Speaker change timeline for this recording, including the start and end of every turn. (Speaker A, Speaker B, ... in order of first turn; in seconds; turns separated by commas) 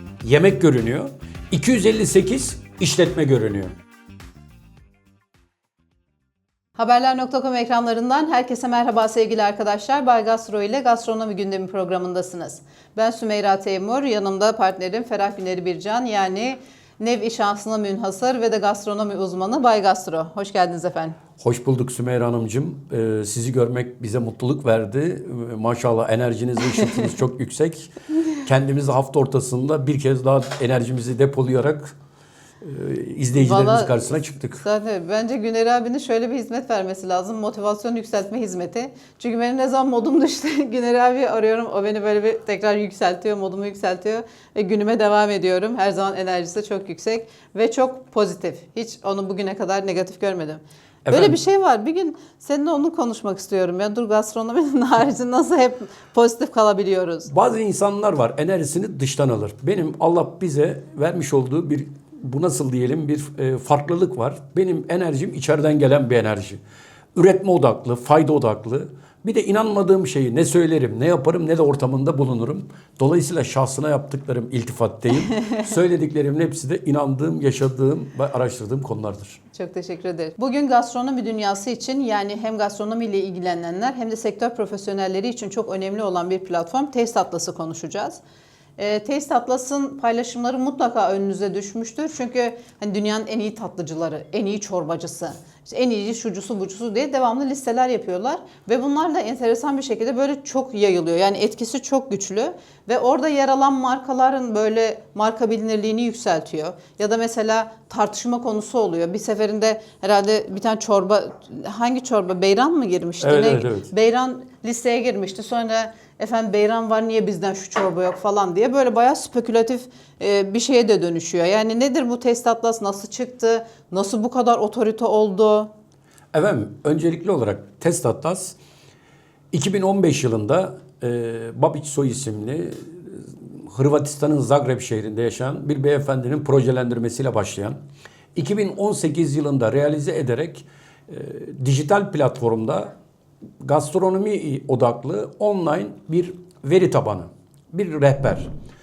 Speaker A: 0.2-3.7, Speaker B: 6.8-21.2, Speaker A: 21.4-31.9, Speaker A: 32.6-34.6, Speaker B: 33.3-34.0, Speaker B: 34.6-57.3, Speaker A: 51.1-51.4, Speaker A: 57.3-66.6, Speaker A: 67.2-79.4, Speaker B: 79.5-88.2, Speaker B: 88.8-125.7, Speaker A: 113.2-113.9, Speaker A: 126.3-128.6, Speaker A: 129.5-137.8, Speaker A: 138.3-142.9, Speaker A: 143.6-148.5